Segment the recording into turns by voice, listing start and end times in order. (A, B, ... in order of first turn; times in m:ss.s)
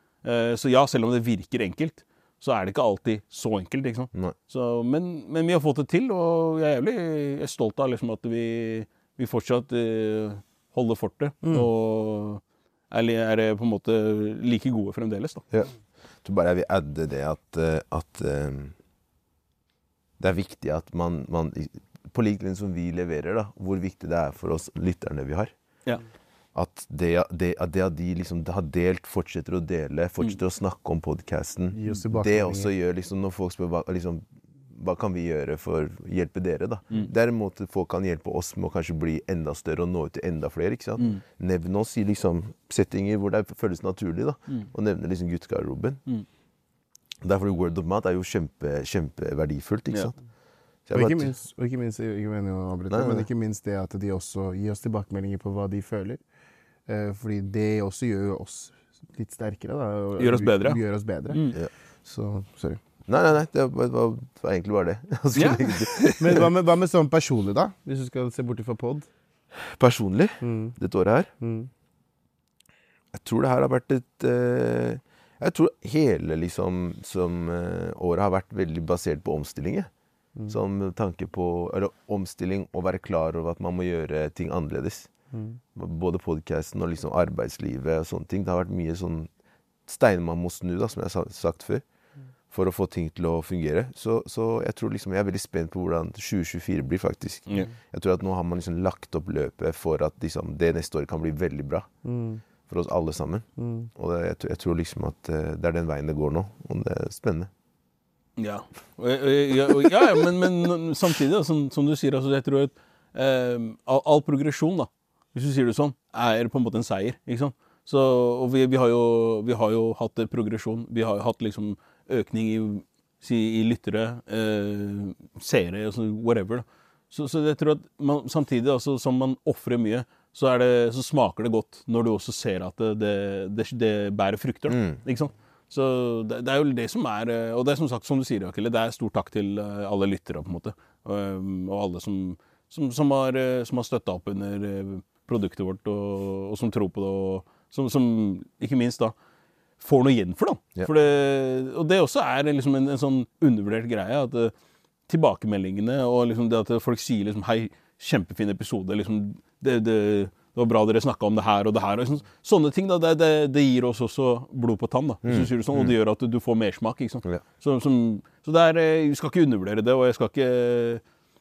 0:00.2-0:15.4 A
0:16.2-0:18.7 B
0:20.2-0:25.5 B
0:26.6-0:46.0 B
0:31.7-0:32.7 C
0:47.2-0:50.2 B
0:50.9-0:51.3 B
0:50.9-0:56.2 C
0:52.9-0:53.3 B
0:56.9-1:01.4 C
1:00.2-1:01.6 A
1:02.0-1:02.8 C
1:03.1-1:06.0 B
1:05.4-1:06.5 A
1:06.2-1:09.1 C
1:09.8-1:11.3 B
1:10.4-1:10.8 C
1:11.4-1:11.7 C
1:13.1-1:19.9 B
1:20.5-1:25.1 B
1:25.3-1:25.6 C
1:25.8-1:29.3 B
1:29.9-1:31.8 B
1:32.5-1:41.9 B
1:42.0-1:42.4 C
1:42.7-1:47.5 B
1:43.6-1:43.9 C
1:48.4-2:29.2 A
2:14.7-2:15.0 B
2:29.8-2:34.5 A
2:35.1-2:51.0 A
2:45.2-2:46.0 B